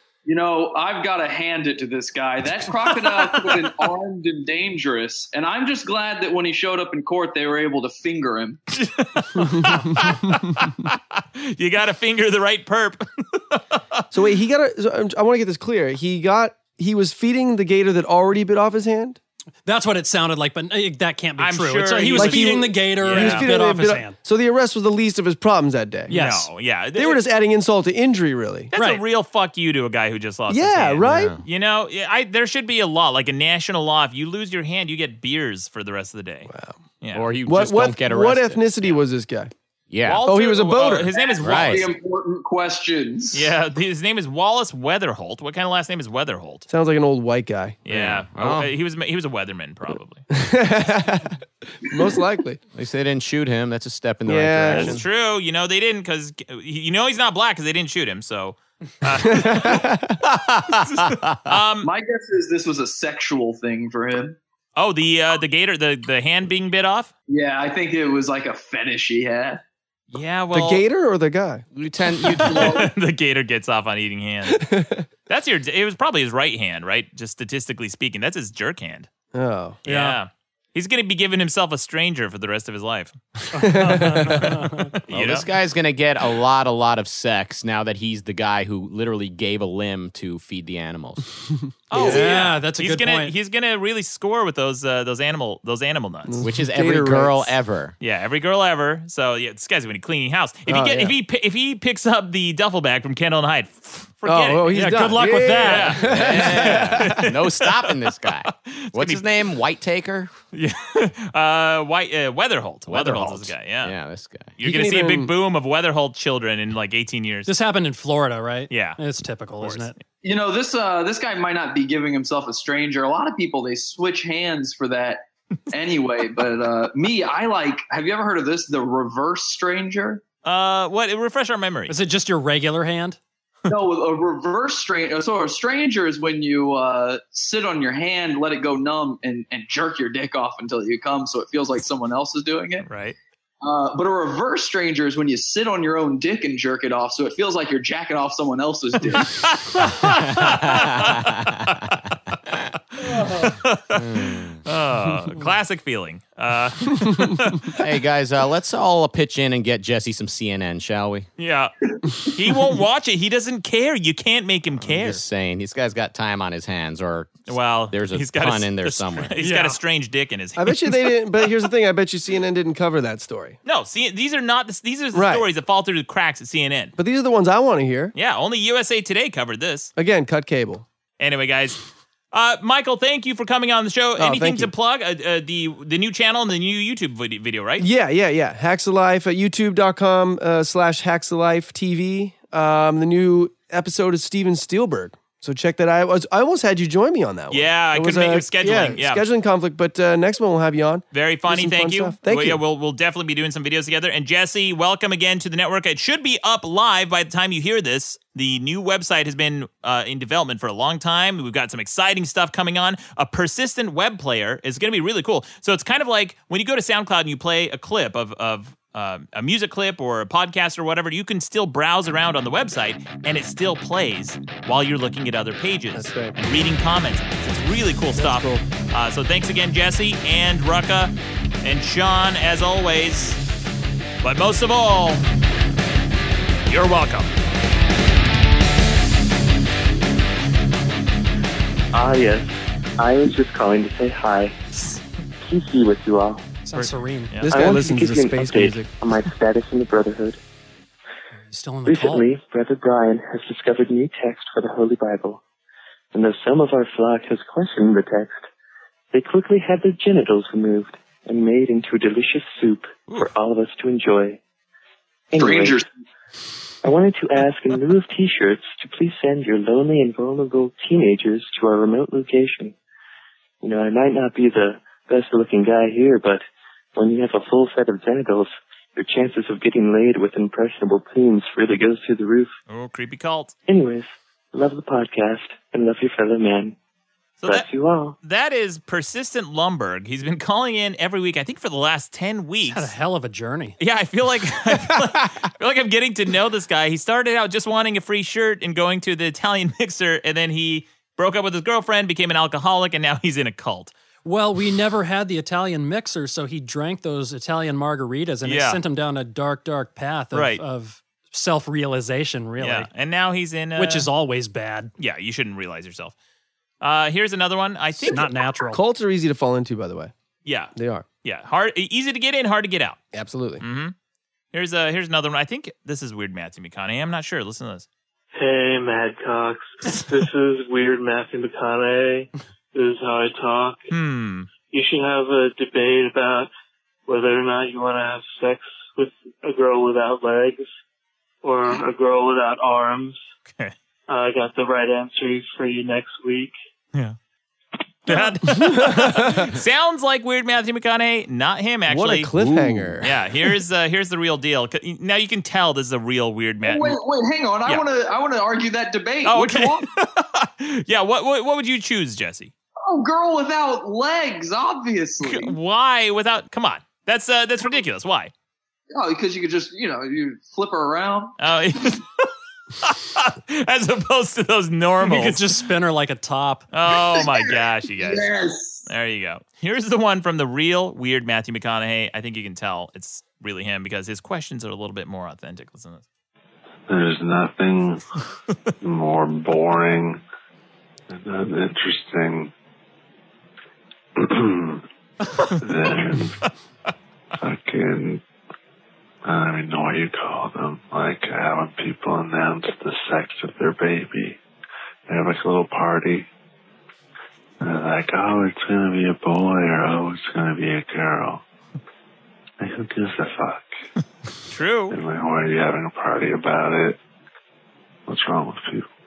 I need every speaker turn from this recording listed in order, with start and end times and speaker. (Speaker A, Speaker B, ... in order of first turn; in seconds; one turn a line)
Speaker A: 0.2-8.6
Speaker B: 2.5-3.5
Speaker B: 8.7-14.1
Speaker C: 9.4-10.6
Speaker C: 14.1-19.2
Speaker D: 19.6-24.1
Speaker B: 21.4-23.5
Speaker C: 22.1-26.1
Speaker D: 26.1-26.5
Speaker B: 26.1-27.2
Speaker C: 26.9-28.7
Speaker B: 28.7-36.5
Speaker D: 28.7-29.0
Speaker C: 30.5-31.3
Speaker E: 31.0-31.4
Speaker C: 36.5-36.8
Speaker B: 37.0-37.3
Speaker E: 37.1-38.9
Speaker C: 37.5-39.5
Speaker E: 39.9-40.2
Speaker B: 40.0-41.9
Speaker C: 40.2-41.1
Speaker A: 41.1-43.5
Speaker E: 41.4-41.9
Speaker B: 43.3-46.7
Speaker C: 46.7-47.8
Speaker B: 47.9-50.2
Speaker E: 47.9-48.7
Speaker C: 50.3-52.6
Speaker E: 52.7-55.0
Speaker C: 54.3-55.0
Speaker B: 54.7-59.9
Speaker C: 59.2-60.2
Speaker E: 60.2-61.5
Speaker B: 60.7-61.9
Speaker A: 61.8-64.4
Speaker B: 64.8-67.1
Speaker A: 67.3-69.6
Speaker B: 70.1-70.8
Speaker C: 70.5-71.6
Speaker E: 71.7-72.8
Speaker B: 72.2-74.6
Speaker A: 72.5-72.8
Speaker C: 74.5-75.1
Speaker B: 75.3-79.1
Speaker C: 79.3-79.8
Speaker B: 79.8-83.2
Speaker D: 79.8-80.2
Speaker D: 83.5-84.9
Speaker C: 83.5-84.5
Speaker B: 85.0-85.5
Speaker E: 85.1-91.2
Speaker B: 91.9-96.4
Speaker C: 91.9-92.2
Speaker D: 91.9-93.3
Speaker C: 96.3-97.5
Speaker E: 96.4-97.9
Speaker B: 98.0-104.7
Speaker C: 100.7-101.1
Speaker C: 104.2-107.2
Speaker D: 104.7-106.1
Speaker B: 105.6-109.2
Speaker E: 106.0-110.3
Speaker B: 110.5-113.9
Speaker E: 112.9-114.6
Speaker B: 114.6-117.5
Speaker C: 114.6-115.3
Speaker D: 117.5-119.9
Speaker B: 118.7-119.0
Speaker B: 119.6-120.0
Speaker A: 120.2-130.2
Speaker B: 130.4-131.9
Speaker D: 131.9-133.2
Speaker A: 133.7-142.8
Speaker B: 142.8-143.1
Speaker A: 143.6-149.4
Speaker B: 149.2-152.1
Speaker E: 150.0-151.8
Speaker B: 152.9-157.8
Speaker E: 153.9-154.6
Speaker E: 157.8-161.3
Speaker B: 161.4-161.7
Speaker B: 162.2-165.2
Speaker E: 164.8-169.3
Speaker B: 167.5-171.0
Speaker D: 169.4-169.8
Speaker C: 170.6-173.6
Speaker B: 173.6-176.9
Speaker C: 175.1-175.4
Speaker C: 177.0-178.1
Speaker B: 178.1-179.9
Speaker C: 179.9-180.8
Speaker B: 181.2-187.9
Speaker C: 184.2-184.7
Speaker C: 187.8-202.6
Speaker B: 197.5-199.2
Speaker B: 201.1-233.4
Speaker C: 225.9-226.4
Speaker C: 228.1-228.6
Speaker B: 234.2-235.2
Speaker B: 236.7-237.3
Speaker F: 241.9-244.5
Speaker F: 245.4-246.5
Speaker D: 246.6-247.4
Speaker B: 246.7-247.5
Speaker C: 247.4-249.0
Speaker F: 247.5-250.4
Speaker D: 251.5-252.2
Speaker F: 251.8-255.4
Speaker F: 256.1-258.4
Speaker F: 259.1-264.4
Speaker F: 265.3-265.8
Speaker A: 265.3-265.8
Speaker F: 266.8-272.7
Speaker F: 273.6-276.4
Speaker F: 276.9-282.5
Speaker B: 282.7-283.5
Speaker F: 283.7-286.8
Speaker B: 287.4-287.7
Speaker F: 287.4-288.2
Speaker B: 288.2-292.9
Speaker D: 292.7-293.8
Speaker B: 293.8-303.9
Speaker D: 304.2-312.9
Speaker B: 308.4-308.8
Speaker B: 310.3-310.6
Speaker B: 312.6-314.1
Speaker D: 313.8-314.9
Speaker B: 315.0-316.1
Speaker B: 316.8-318.2
Speaker C: 318.1-320.1
Speaker D: 318.1-318.8
Speaker B: 320.4-323.0
Speaker C: 320.7-321.0
Speaker C: 323.1-323.6
Speaker B: 323.6-323.9
Speaker B: 324.5-327.9
Speaker G: 328.4-333.8
Speaker B: 333.9-334.5
Speaker G: 334.7-336.5
Speaker G: 337.1-340.7
Speaker G: 341.4-343.2
Speaker G: 344.1-346.5
Speaker B: 348.1-352.3
Speaker C: 348.5-349.5
Speaker C: 351.9-353.2
Speaker E: 352.5-352.9
Speaker B: 353.0-357.0
Speaker A: 356.6-359.9
Speaker B: 359.2-362.5
Speaker A: 362.8-365.5
Speaker B: 365.2-368.3
Speaker A: 368.9-371.3
Speaker B: 371.4-372.3
Speaker B: 372.8-375.4
Speaker D: 375.0-376.7
Speaker B: 376.7-386.0
Speaker A: 377.1-377.4
Speaker A: 378.0-378.9
Speaker H: 386.9-388.0
Speaker H: 388.8-390.2
Speaker H: 391.1-392.5
Speaker H: 394.2-394.8
Speaker H: 395.6-396.4
Speaker B: 396.1-396.4
Speaker H: 397.4-398.2
Speaker H: 399.2-404.4
Speaker H: 405.1-406.3
Speaker H: 407.6-411.4
Speaker H: 412.6-413.7
Speaker B: 414.5-415.0
Speaker H: 414.9-417.0
Speaker H: 418.1-418.9